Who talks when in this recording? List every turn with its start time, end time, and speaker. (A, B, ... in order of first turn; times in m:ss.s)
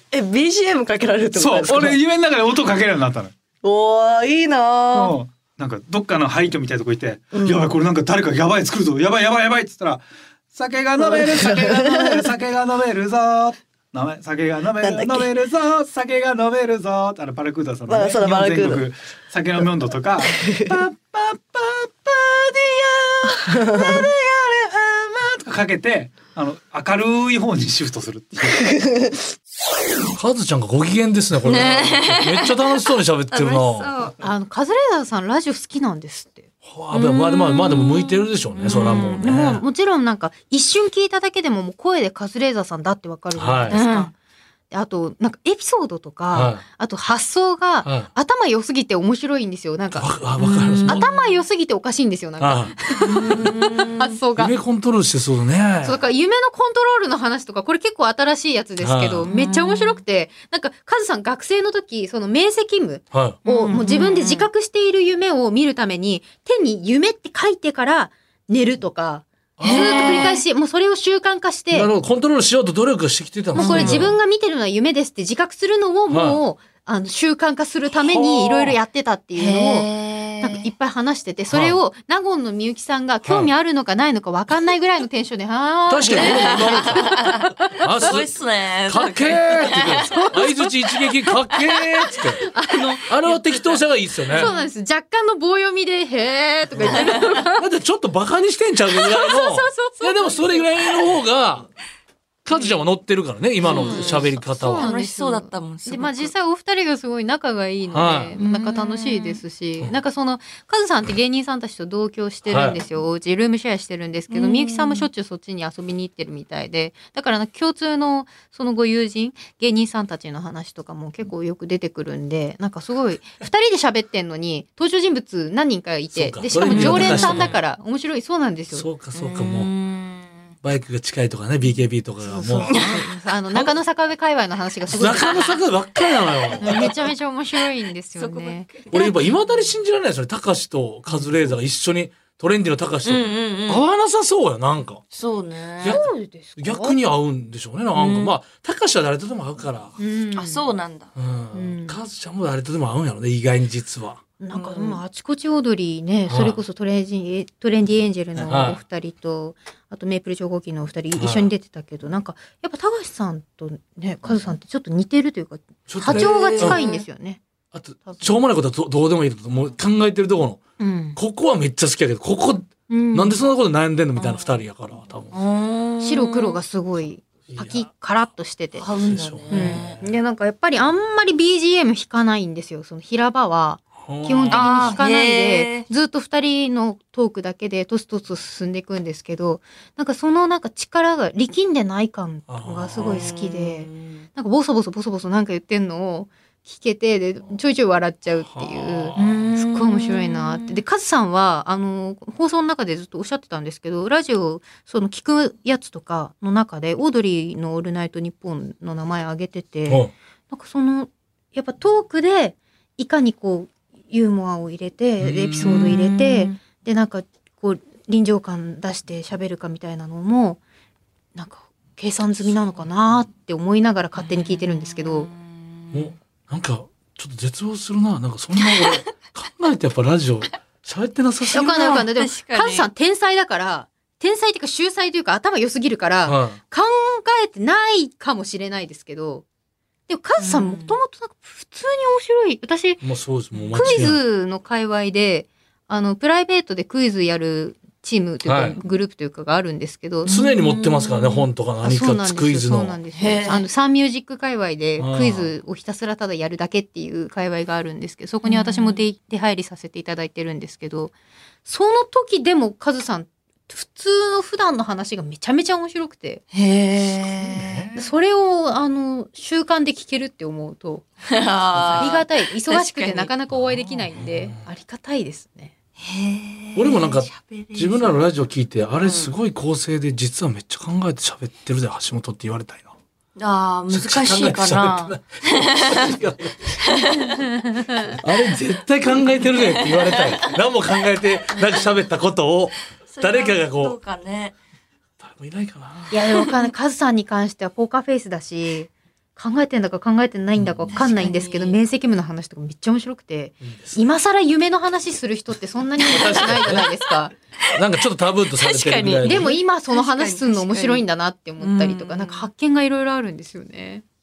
0:00.1-0:02.0 A
0:01.4-0:03.3 B
0:03.6-0:05.2 A
0:04.9-0:28.7 B
0:07.3-0:07.7 A
0:11.0-0:12.4 A
0:14.8-0:15.3 A
0:17.9-0:18.9 A
0:20.3-0:20.8 A
0:23.4-0:24.1 A
0:30.2-0:33.9 C
0:31.4-0:34.2 D
0:34.2-0:36.5 E
0:36.6-0:39.6 C
0:36.9-0:39.2 D
0:38.7-0:44.1 E
0:43.4-0:43.8 C
0:43.7-0:44.1 D
0:44.7-0:50.2 E
0:46.3-0:46.6 C
0:47.8-0:48.1 C
0:50.0-0:51.1 C
0:50.4-0:51.4 D
0:50.9-0:54.5 E
0:52.4-0:52.8 C
0:53.0-0:54.2 D
0:54.4-0:56.0 C
0:55.8-1:11.9 E
0:58.8-0:59.3 C
0:59.3-1:00.0 D
1:03.1-1:03.4 C
1:03.4-1:04.5 D
1:09.6-1:10.3 C
1:09.6-1:10.4 D
1:11.7-1:14.2 C
1:13.6-1:19.9 E
1:13.6-1:14.1 D
1:16.1-1:16.4 C
1:18.1-1:18.7 C
1:19.4-1:20.7 D
1:20.4-1:27.5 E
1:21.5-1:21.8 C
1:23.2-1:23.5 C
1:25.9-1:27.2 C
1:26.2-1:30.2 D
1:27.8-1:28.4 C
1:28.9-1:32.4 C
1:30.1-1:30.7 E
1:32.4-1:33.1 E
1:33.1-1:34.5 C
1:34.3-1:34.7 D
1:34.3-1:37.6 E
1:36.8-1:41.7 C
1:38.9-1:40.7 E
1:42.4-1:44.9 C
1:43.6-1:46.3 D
1:43.6-2:08.9 E
1:47.9-1:48.4 C
1:48.4-1:49.4 D
1:52.5-1:52.8 C
1:54.3-1:55.1 D
2:06.1-2:07.6 C
2:06.6-2:07.6 D
2:08.7-2:09.7 C
2:09.1-2:10.5 D
2:10.6-2:13.7 C
2:12.2-2:15.6 E
2:12.7-2:13.0 D
2:14.9-2:16.9 C
2:16.6-2:18.7 E
2:18.2-2:19.4 D
2:18.9-2:25.0 C
2:23.0-2:23.8 D
2:25.1-2:26.0 D
2:25.8-2:30.0 C
2:25.9-2:27.0 E
2:27.9-2:28.3 D
2:30.0-2:30.6 E
2:30.4-2:31.1 D
2:31.2-2:34.2 C
2:31.5-2:32.0 E
2:34.4-2:47.4 E
2:34.5-2:35.0 D
2:36.3-2:36.6 C
2:38.4-2:38.8 C
2:41.1-2:41.5 C
2:45.9-2:46.8 C
2:46.0-2:47.0 D
2:47.7-2:50.6 C
2:48.0-2:48.4 E
2:50.8-2:51.2 E
2:51.2-2:55.3 C
2:52.9-2:53.4 E
2:54.2-2:54.5 D
2:55.3-2:56.6 D
2:56.0-2:58.9 E
2:57.5-2:57.9 C
2:58.8-3:00.0 D
2:59.0-3:00.0 C
2:59.5-3:40.6 E
3:04.0-3:05.0 C
3:04.5-3:05.9 D
3:12.5-3:13.4 C
3:13.0-3:14.2 D
3:18.4-3:19.4 C
3:19.2-3:20.8 D
3:35.2-3:35.9 C
3:35.6-3:36.6 D
3:41.4-3:45.3 E
3:44.2-3:46.1 D
3:45.9-3:52.0 C
3:48.6-3:49.0 D
3:51.5-3:52.9 D
3:51.5-3:59.4 E
3:56.2-3:56.6 C
4:00.1-4:03.0 E
4:00.4-4:01.0 D
4:03.0-4:04.2 C
4:03.5-4:04.1 D
4:03.7-4:10.3 E
4:08.4-4:08.8 C
4:10.2-4:11.5 D
4:10.3-4:13.0 C
4:11.8-4:21.1 E
4:13.2-4:13.6 D
4:15.0-4:15.5 C
4:18.4-4:19.0 D
4:21.6-4:26.4 E
4:26.5-4:27.9 D
4:27.1-4:28.0 C
4:28.0-4:31.1 E
4:31.3-4:33.3 D
4:31.7-4:32.2 C
4:32.0-4:35.7 E
4:33.5-4:34.6 C
4:36.0-4:38.2 D
4:36.8-4:42.9 C
4:39.0-4:39.3 D
4:43.4-4:46.1 D
4:43.9-4:46.8 C
4:46.8-4:48.2 D
4:48.2-4:54.0 C
4:49.4-4:50.5 D
4:51.5-4:52.0 D
4:53.1-4:54.6 D
4:55.2-4:56.2 C
4:56.1-5:07.3 E
5:00.6-5:00.9 C
5:00.9-5:01.8 D
5:03.6-5:04.0 C
5:06.0-5:06.9 C
5:07.7-5:09.5 C
5:08.6-5:11.0 D
5:09.2-5:14.0 E
5:11.6-5:12.5 D